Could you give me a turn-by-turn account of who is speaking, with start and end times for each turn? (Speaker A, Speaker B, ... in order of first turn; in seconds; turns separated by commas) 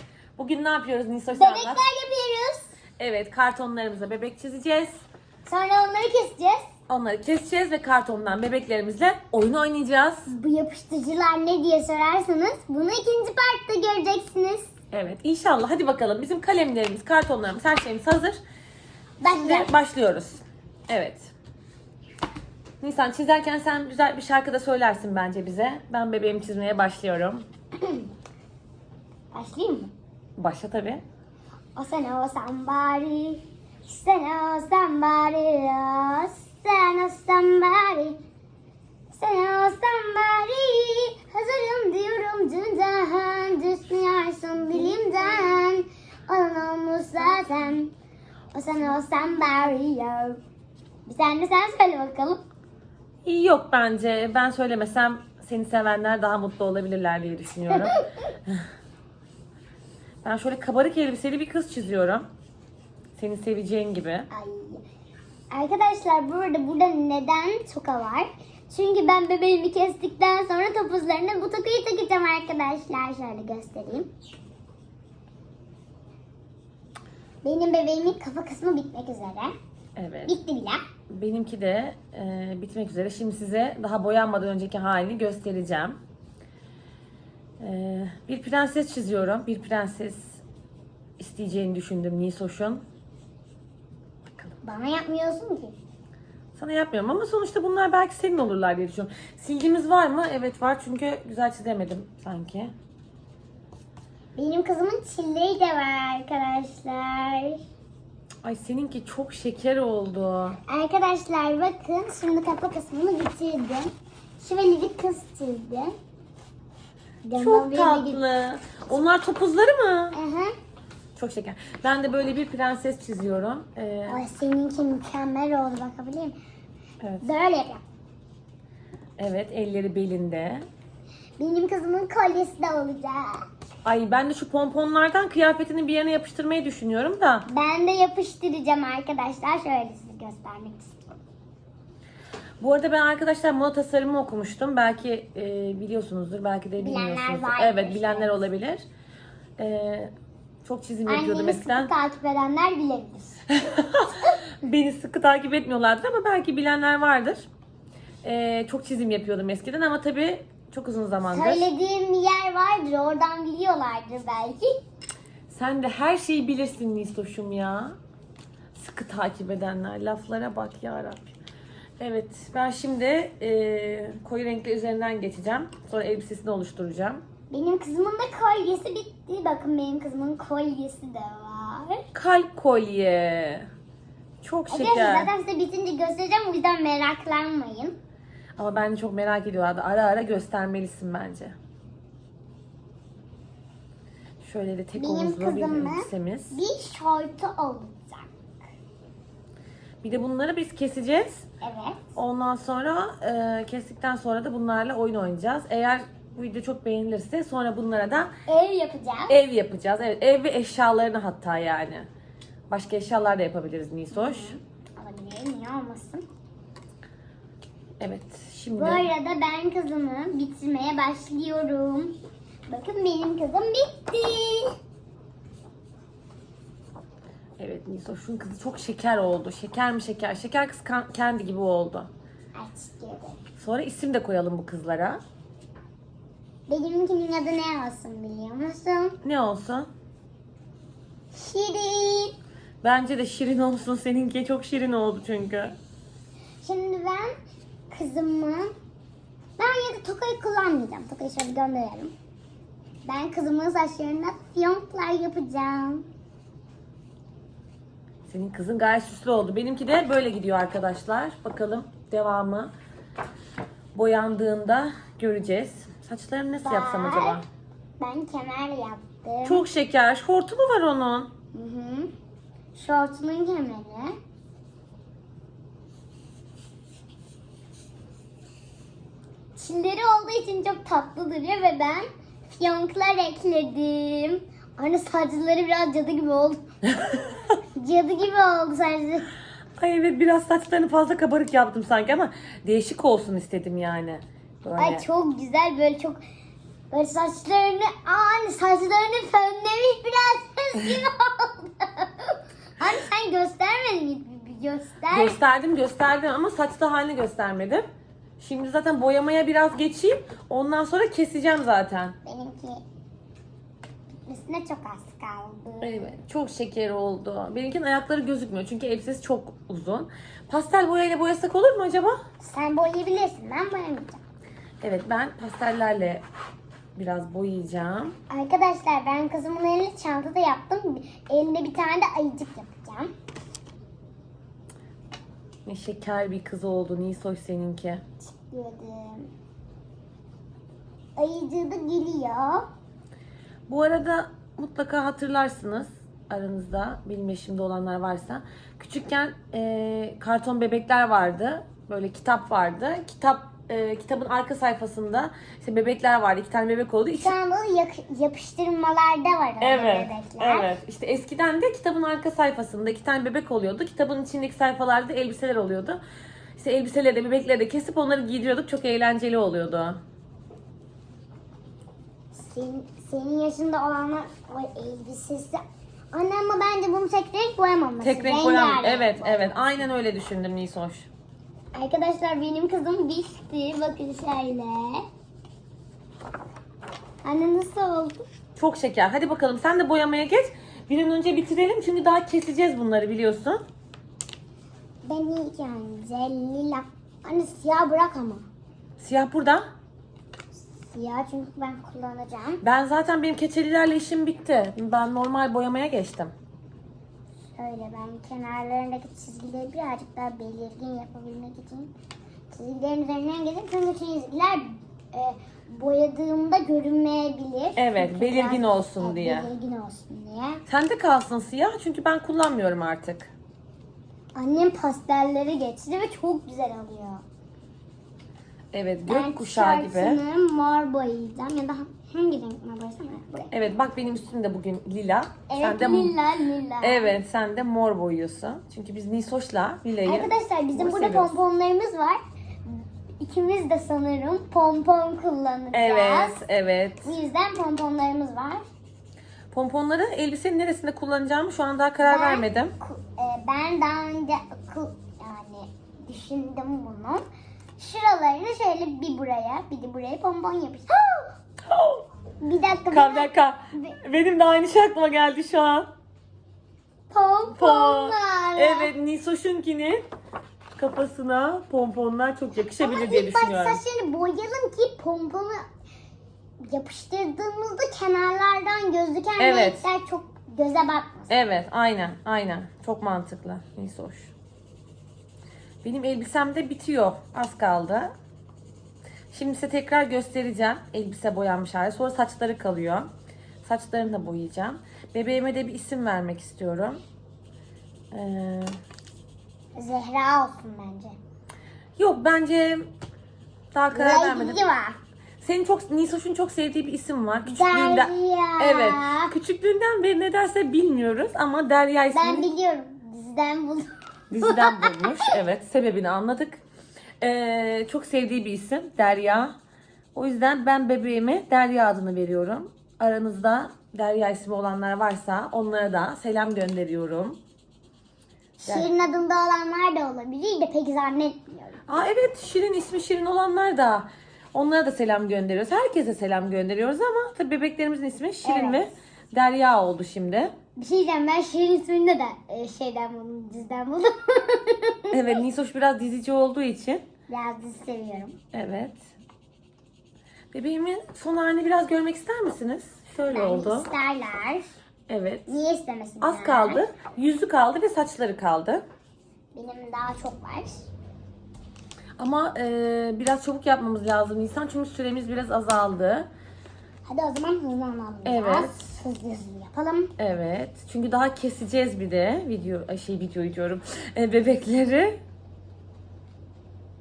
Speaker A: 0.4-1.8, Speaker B: 1.3-2.8, Speaker A: 3.0-5.0, Speaker B: 5.5-6.6, Speaker A: 6.9-10.3, Speaker B: 10.3-14.7, Speaker A: 14.9-18.4, Speaker B: 19.2-19.7, Speaker A: 19.3-21.3, Speaker A: 22.8-27.5, Speaker B: 27.8-28.1, Speaker B: 29.3-29.9, Speaker A: 30.4-31.0, Speaker B: 31.8-38.2, Speaker B: 39.1-47.9, Speaker B: 48.5-50.4, Speaker B: 51.1-52.4, Speaker A: 53.2-58.7, Speaker B: 57.7-58.1, Speaker A: 60.2-62.3, Speaker A: 63.2-64.3, Speaker B: 64.3-64.8, Speaker B: 65.5-74.1, Speaker B: 77.4-79.5, Speaker A: 80.0-80.4, Speaker B: 80.3-80.8, Speaker A: 81.1-86.0, Speaker A: 87.6-90.4, Speaker A: 91.2-92.8, Speaker B: 94.6-95.8, Speaker A: 96.5-102.7, Speaker B: 104.3-107.6, Speaker A: 108.4-110.6, Speaker B: 110.7-113.9, Speaker B: 114.4-115.9, Speaker B: 117.2-118.2, Speaker A: 117.3-120.2, Speaker B: 120.1-120.5, Speaker A: 121.2-124.2, Speaker B: 124.1-126.3, Speaker B: 127.2-127.8, Speaker A: 129.2-130.7, Speaker B: 131.4-133.5, Speaker A: 133.8-137.4, Speaker B: 137.5-141.0, Speaker A: 142.6-148.8, Speaker B: 146.8-148.4, Speaker A: 149.6-150.1, Speaker A: 150.7-151.9, Speaker B: 151.1-153.4, Speaker A: 153.5-157.5, Speaker A: 158.2-161.7, Speaker B: 161.3-164.7, Speaker A: 165.5-168.0, Speaker A: 168.7-171.3, Speaker A: 172.0-177.2, Speaker B: 177.5-182.0, Speaker A: 182.1-183.7, Speaker A: 184.4-185.3, Speaker B: 184.7-188.0, Speaker A: 188.6-191.6, Speaker A: 194.4-196.6, Speaker B: 195.0-198.3, Speaker A: 200.0-201.5, Speaker B: 201.6-202.1, Speaker A: 202.2-208.3, Speaker B: 208.5-209.4, Speaker A: 209.3-212.1, Speaker A: 212.7-214.5, Speaker B: 214.1-216.2, Speaker A: 218.0-219.1, Speaker B: 218.8-222.2, Speaker B: 222.7-224.8, Speaker A: 227.6-232.1, Speaker B: 232.6-233.4, Speaker A: 233.6-235.2, Speaker B: 236.7-239.2, Speaker A: 239.2-239.9, Speaker B: 241.3-242.3, Speaker A: 242.8-245.8, Speaker B: 246.6-247.3, Speaker B: 247.9-248.7, Speaker B: 249.6-252.1, Speaker B: 253.1-256.1, Speaker A: 258.3-262.7, Speaker A: 263.9-267.4, Speaker B: 266.6-267.4, Speaker B: 268.0-269.6, Speaker A: 269.4-271.3, Speaker B: 271.5-272.1, Speaker B: 272.8-274.2, Speaker B: 279.6-286.6, Speaker A: 287.0-287.3, Speaker B: 287.8-289.3, Speaker A: 289.8-295.0, Speaker B: 294.8-296.2, Speaker B: 296.9-305.4, Speaker A: 305.1-307.9, Speaker A: 308.4-312.2, Speaker B: 312.3-312.8, Speaker B: 314.3-316.1, Speaker A: 315.8-322.2, Speaker B: 322.4-324.2, Speaker A: 324.8-326.2, Speaker A: 327.0-328.2, Speaker B: 328.3-333.1, Speaker A: 335.7-338.0, Speaker B: 338.2-339.3, Speaker B: 341.2-342.7, Speaker A: 343.7-357.4, Speaker B: 357.2-360.7, Speaker A: 359.6-366.0, Speaker A: 366.6-370.0, Speaker B: 372.3-379.6, Speaker A: 378.0-381.1, Speaker B: 381.8-385.0, Speaker B: 387.2-388.2, Speaker A: 388.6-393.6, Speaker B: 395.0-398.4, Speaker A: 399.0-399.6, Speaker B: 400.6-402.6, Speaker A: 402.6-406.3, Speaker B: 407.6-411.9, Speaker B: 412.5-420.6, Speaker A: 417.8-419.5, Speaker A: 420.7-423.3, Speaker B: 424.4-427.2, Speaker A: 428.7-430.2, Speaker B: 429.1-433.5, Speaker A: 433.5-436.2, Speaker B: 435.5-437.1, Speaker A: 436.8-441.4, Speaker B: 440.1-446.4, Speaker A: 445.7-447.1, Speaker B: 447.0-448.6, Speaker A: 449.5-452.7, Speaker B: 452.0-457.2, Speaker B: 457.8-461.4, Speaker A: 461.7-462.1, Speaker B: 462.4-464.0, Speaker A: 462.9-465.9, Speaker B: 467.1-468.9, Speaker A: 467.5-470.0, Speaker A: 470.8-473.8, Speaker B: 472.8-475.6, Speaker B: 476.6-481.3, Speaker A: 479.4-479.8, Speaker A: 481.3-484.3, Speaker A: 485.8-488.1, Speaker A: 489.3-493.1, Speaker A: 493.6-497.0, Speaker A: 498.1-498.8, Speaker B: 499.8-501.2, Speaker A: 502.0-502.9, Speaker A: 503.7-504.6, Speaker B: 503.9-505.0, Speaker A: 505.4-512.5, Speaker B: 507.5-509.3, Speaker B: 512.1-513.9, Speaker A: 514.3-516.6, Speaker B: 514.4-515.4, Speaker A: 517.2-519.6, Speaker A: 520.1-527.4, Speaker B: 528.6-531.9, Speaker A: 531.9-540.5, Speaker B: 538.4-538.9, Speaker B: 540.8-545.2, Speaker A: 545.1-547.0, Speaker B: 547.3-548.4, Speaker A: 548.5-549.0, Speaker A: 550.5-553.9, Speaker B: 553.2-554.7, Speaker A: 555.1-555.5, Speaker B: 555.5-556.8, Speaker A: 556.2-558.8, Speaker B: 559.5-560.9, Speaker A: 562.2-566.3, Speaker B: 567.1-570.1, Speaker A: 568.2-568.9, Speaker A: 570.2-575.2